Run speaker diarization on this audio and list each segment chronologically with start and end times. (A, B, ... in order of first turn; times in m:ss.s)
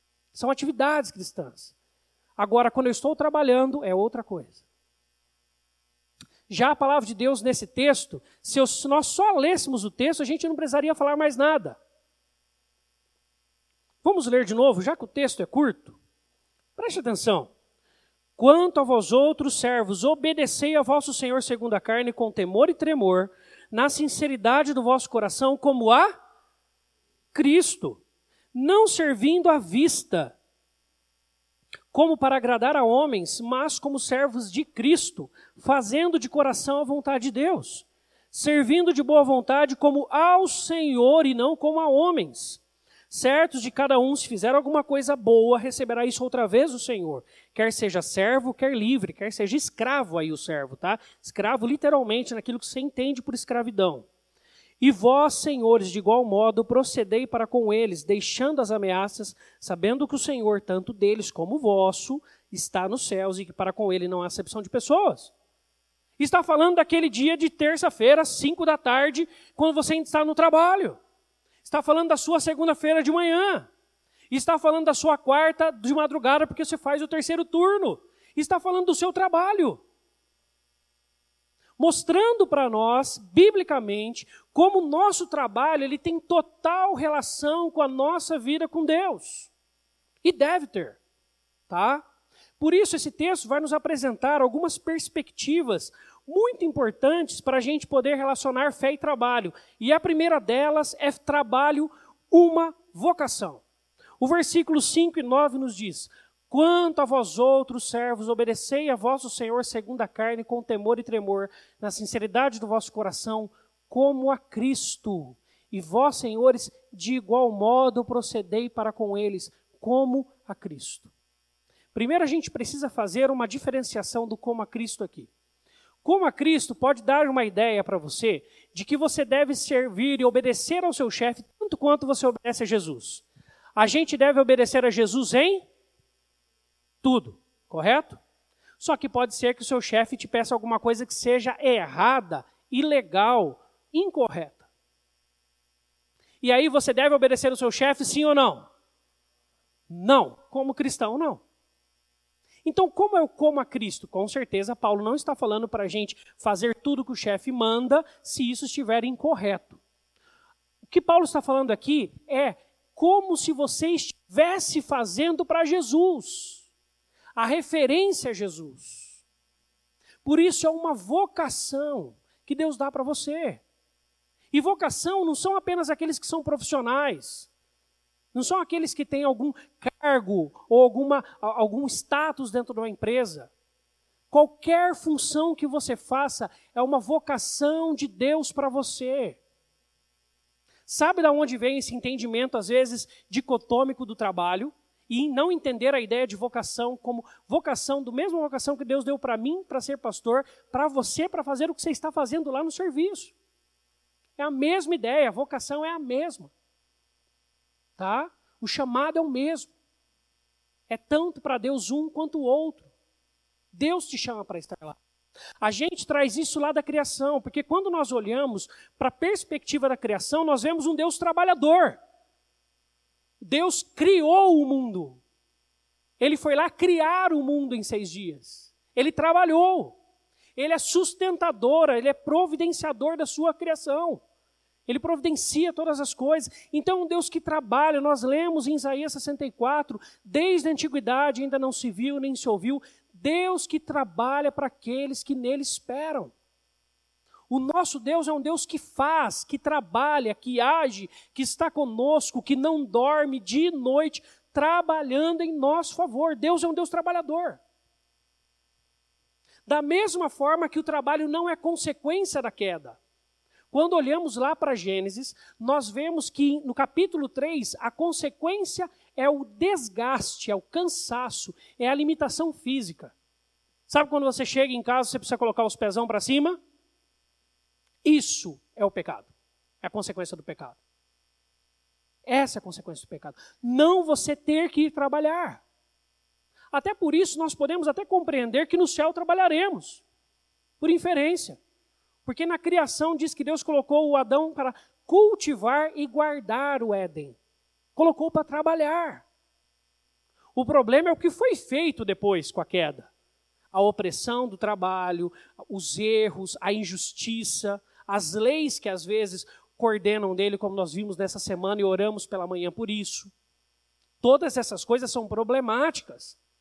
0:00.3-0:01.7 A
0:02.4-0:04.6 A
0:06.5-0:11.8 A
0:14.0-0:16.0 A
0:16.8-0:17.5 A
0:18.4-0:26.1 A
0:27.3-0:28.0 A
0:28.5-0:30.4 A
0:31.9-0:54.1 A
0:54.8-1:05.3 A
1:06.2-1:11.0 A
1:11.6-1:13.7 A
1:14.3-1:19.8 A
1:21.8-1:29.5 A
1:30.2-1:31.0 A
1:31.7-1:32.0 A
1:32.6-1:43.6 A
1:44.2-2:01.1 A
2:01.9-2:05.3 A
2:06.0-2:13.2 A
2:13.8-2:15.6 A
2:17.0-2:18.2 A
2:18.8-2:24.6 A
2:26.4-2:28.7 A
2:29.9-2:31.4 A
2:32.6-2:39.8 A
2:40.9-2:46.6 A
2:47.4-2:49.2 A
2:50.2-2:53.6 A
2:54.5-2:57.5 A
2:58.3-3:03.5 A
3:04.3-3:09.4 A
3:10.9-3:23.3 A
3:24.4-3:26.5 A
3:28.0-3:29.7 A
3:30.9-3:32.9 A
3:33.7-3:35.0 A
3:35.6-3:42.0 A
3:43.4-3:45.2 A
3:46.2-3:50.0 A
3:50.6-3:54.2 A
3:54.9-4:06.3 A
4:07.5-4:17.6 A
4:19.6-4:23.0 A
4:23.7-4:33.1 A
4:33.9-4:36.6 A
4:38.0-4:39.3 A
4:39.8-4:40.8 A
4:42.2-4:45.6 A
4:46.7-4:50.0 A
4:50.8-4:51.6 A
4:52.2-4:57.4 A
4:58.0-4:59.2 A
5:00.5-5:03.1 A
5:03.7-5:13.3 A
5:14.2-5:16.4 A